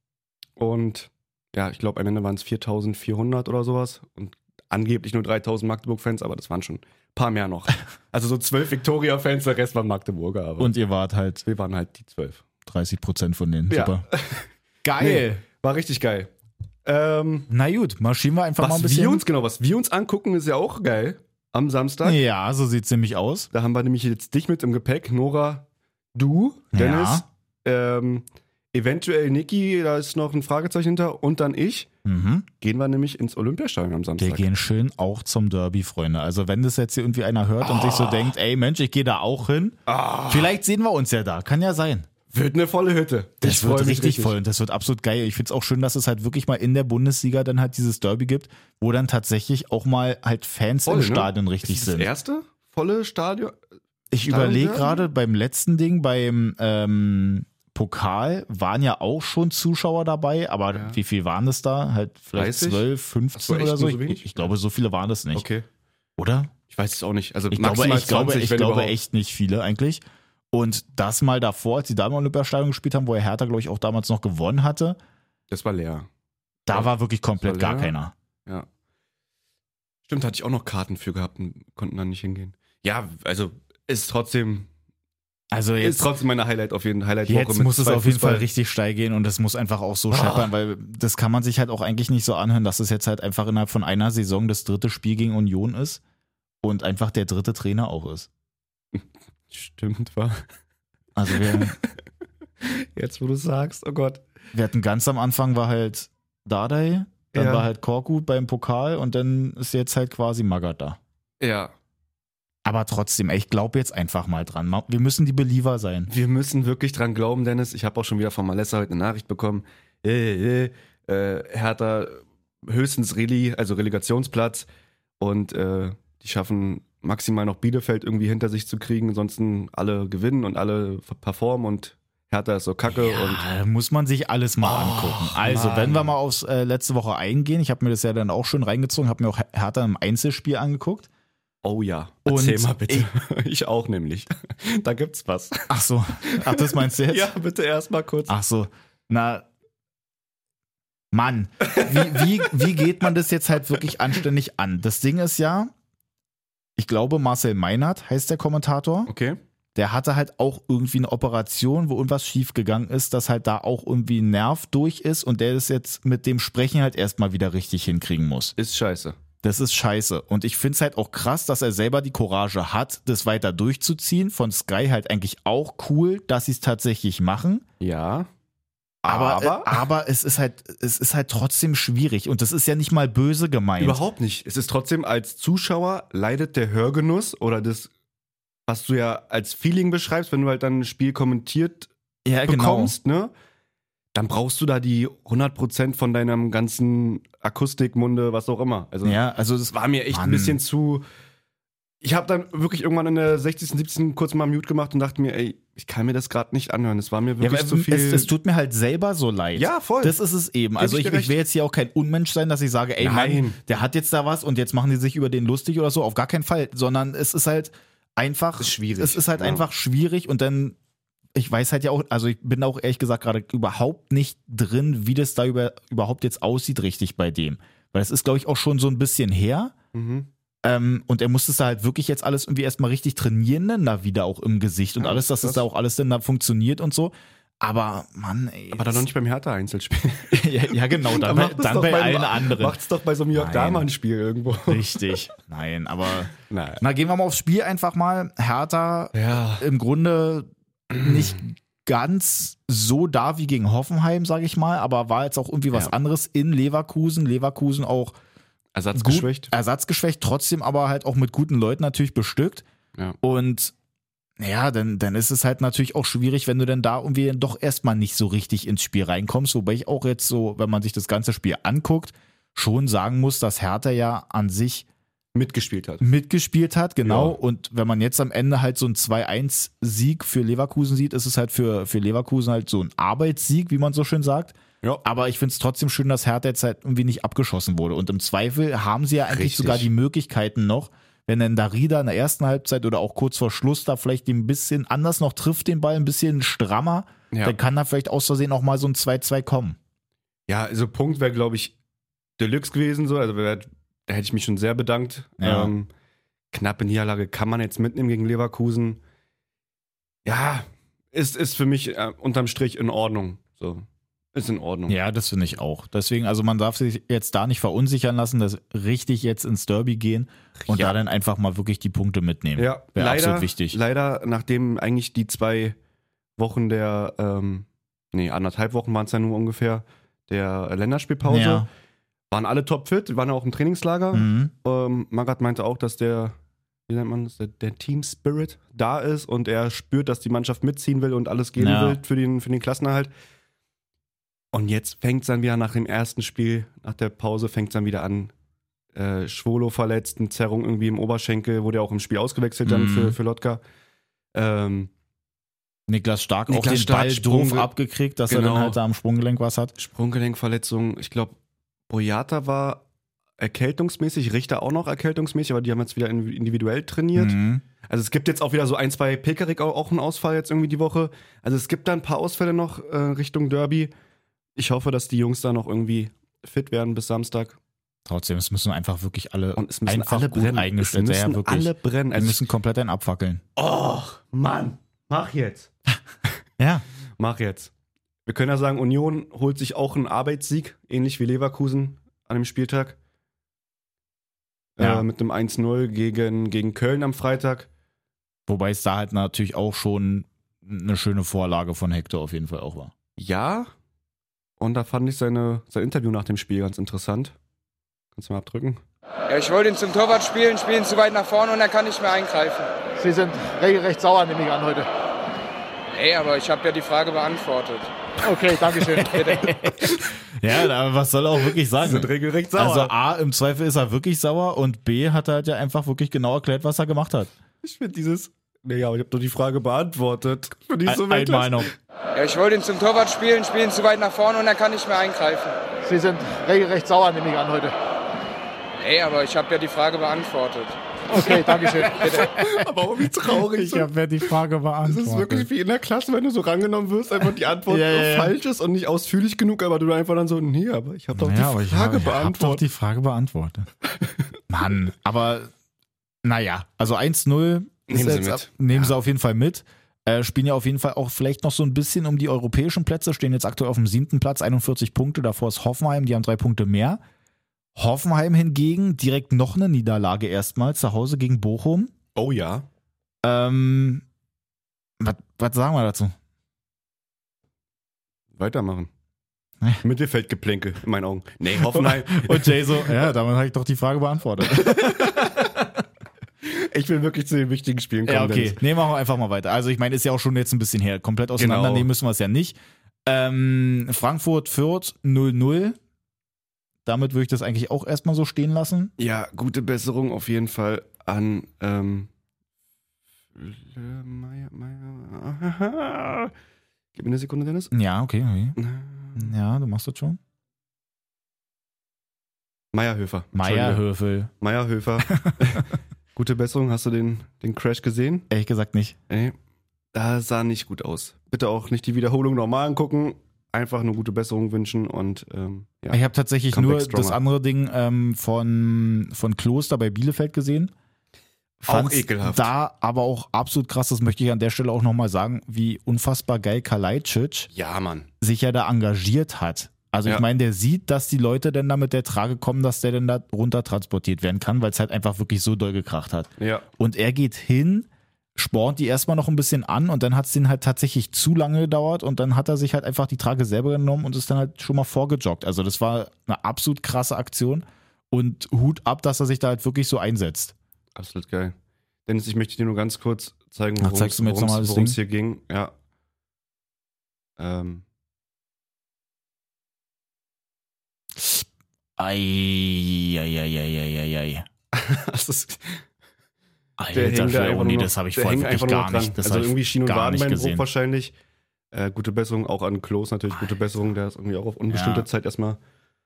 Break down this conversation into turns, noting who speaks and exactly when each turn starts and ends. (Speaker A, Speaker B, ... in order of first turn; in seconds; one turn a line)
Speaker A: 0.6-10.8
Speaker B: 10.6-11.4
Speaker A: 11.4-12.4
Speaker B: 12.7-14.1
Speaker A: 13.7-16.3
Speaker B: 14.8-15.4
Speaker A: 16.9-17.5
Speaker B: 17.5-19.2
Speaker A: 18.6-22.2
Speaker B: 22.0-23.5
Speaker A: 23.5-31.9
Speaker B: 26.7-27.2
Speaker B: 32.0-32.5
Speaker A: 32.6-34.5
Speaker B: 34.2-39.8
Speaker A: 37.6-38.3
Speaker A: 39.9-40.5
Speaker B: 40.3-42.1
Speaker A: 42.3-44.4
Speaker B: 43.4-52.1
Speaker A: 50.9-53.6
Speaker B: 54.1-65.5
Speaker A: 54.3-55.1
Speaker A: 60.7-61.0
Speaker A: 62.3-64.5
Speaker A: 65.3-65.7
Speaker B: 66.2-66.5
Speaker A: 66.7-69.0
Speaker B: 67.5-75.0
Speaker A: 75.5-76.1
Speaker B: 76.7-78.1
Speaker A: 77.4-78.0
Speaker A: 80.1-84.7
Speaker B: 85.5-86.1
Speaker A: 85.8-88.5
Speaker B: 87.3-96.0
Speaker A: 90.1-90.5
Speaker B: 96.6-98.3
Speaker A: 98.9-100.4
Speaker B: 101.2-101.8
Speaker A: 101.4-102.0
Speaker A: 102.6-104.2
Speaker B: 104.5-111.0
Speaker A: 107.3-107.7
Speaker A: 111.4-111.7
Speaker B: 112.7-116.1
Speaker A: 116.1-124.7
Speaker A: 125.2-133.4
Speaker B: 132.9-141.1
Speaker A: 134.6-136.1
Speaker A: 141.6-145.7
Speaker B: 142.3-143.1
Speaker B: 145.7-147.3
Speaker A: 146.2-148.3
Speaker B: 148.3-149.5
Speaker B: 151.1-155.7
Speaker A: 151.6-152.5
Speaker B: 156.8-159.1
Speaker A: 159.1-159.4
Speaker B: 159.8-168.6
Speaker A: 168.6-169.2
Speaker B: 169.4-177.6
Speaker A: 177.8-178.3
Speaker A: 179.0-179.8
Speaker B: 179.1-184.0
Speaker A: 183.8-187.9
Speaker A: 188.7-191.9
Speaker B: 192.3-192.9
Speaker A: 192.4-193.3
Speaker A: 194.2-199.2
Speaker B: 199.0-200.6
Speaker A: 199.7-201.1
Speaker A: 202.0-208.3
Speaker B: 207.4-220.8
Speaker A: 209.6-210.2
Speaker A: 210.8-211.4
Speaker A: 213.0-213.6
Speaker A: 218.6-219.7
Speaker B: 221.3-229.7
Speaker A: 229.9-230.3
Speaker B: 230.6-239.1
Speaker A: 235.0-235.7
Speaker A: 238.7-244.9
Speaker B: 240.3-242.8
Speaker B: 243.3-243.9
Speaker B: 244.6-250.5
Speaker A: 246.5-246.8
Speaker A: 249.1-249.7
Speaker A: 250.9-251.4
Speaker B: 251.0-258.2
Speaker A: 258.8-259.5
Speaker B: 258.9-262.6
Speaker B: 263.2-263.7
Speaker B: 264.4-274.9
Speaker A: 275.4-276.1
Speaker B: 276.0-299.8
Speaker A: 277.0-277.4
Speaker A: 289.3-289.9
Speaker A: 297.3-297.6
Speaker A: 300.5-301.8
Speaker A: 302.4-305.9
Speaker B: 305.4-305.7
Speaker A: 306.5-309.0
Speaker A: 310.2-315.0
Speaker B: 314.9-323.8
Speaker A: 320.6-321.0
Speaker A: 322.6-325.8
Speaker A: 326.4-331.7
Speaker B: 331.2-331.7
Speaker A: 332.3-336.4
Speaker B: 334.1-334.5
Speaker A: 336.9-343.1
Speaker B: 341.6-342.0
Speaker A: 344.5-348.3
Speaker A: 348.9-353.6
Speaker B: 352.6-353.2
Speaker A: 354.3-354.9
Speaker B: 355.9-359.8
Speaker A: 356.5-357.7
Speaker A: 358.3-358.8
Speaker A: 359.8-361.4
Speaker A: 361.9-362.8
Speaker A: 363.4-373.9
Speaker B: 367.1-367.6
Speaker A: 374.6-377.6
Speaker B: 378.1-383.4
Speaker A: 379.6-382.4
Speaker A: 383.6-385.7
Speaker B: 386.6-386.9
Speaker A: 387.2-387.7
Speaker A: 388.3-393.0
Speaker A: 394.8-397.7
Speaker B: 394.8-395.1
Speaker B: 398.5-402.9
Speaker A: 403.2-403.7
Speaker A: 404.6-407.4
Speaker A: 408.1-408.8
Speaker C: 409.3-412.7
Speaker D: 413.0-414.9
Speaker C: 415.9-417.9
Speaker D: 418.2-419.5
Speaker B: 418.9-427.3
Speaker A: 419.8-420.1
Speaker A: 421.8-422.9
Speaker A: 427.6-431.7
Speaker B: 430.9-431.7
Speaker C: 432.1-435.6
Speaker D: 435.8-437.8
Speaker C: 438.8-440.8
Speaker D: 441.1-442.2
Speaker A: 441.9-443.9
Speaker B: 442.0-442.6
Speaker B: 443.3-445.5
Speaker A: 444.9-452.6
Speaker B: 447.7-448.3
Speaker B: 451.1-453.7
Speaker B: 454.5-455.5
Speaker B: 456.2-467.0
Speaker A: 457.9-458.9
Speaker B: 467.8-471.9
Speaker A: 472.1-472.7
Speaker B: 473.2-474.0
Speaker B: 475.0-476.1
Speaker A: 478.4-478.9
Speaker A: 479.8-483.0
Speaker B: 481.6-485.6
Speaker A: 484.5-485.5
Speaker A: 486.4-488.6
Speaker B: 488.1-495.8
Speaker A: 491.4-491.9
Speaker B: 496.9-498.9
Speaker A: 499.0-502.1
Speaker A: 503.4-506.3
Speaker A: 506.9-507.7
Speaker B: 507.7-508.6
Speaker A: 508.6-509.3
Speaker B: 509.2-510.2
Speaker A: 512.7-513.8
Speaker B: 513.4-514.3
Speaker A: 514.4-518.3
Speaker B: 515.0-515.6
Speaker B: 518.3-519.0
Speaker A: 519.1-519.4
Speaker A: 519.9-527.2
Speaker B: 525.9-530.7
Speaker A: 531.6-532.5
Speaker B: 531.7-537.5
Speaker A: 537.5-538.1
Speaker B: 538.2-560.5
Speaker A: 546.4-546.7
Speaker A: 561.0-561.5
Speaker A: 562.1-565.7
Speaker B: 563.8-565.0
Speaker A: 567.4-567.8
Speaker B: 571.2-571.5
Speaker B: 572.0-574.5
Speaker A: 574.7-575.8
Speaker B: 576.8-580.7
Speaker A: 576.9-581.1
Speaker A: 581.7-585.6
Speaker B: 584.7-585.1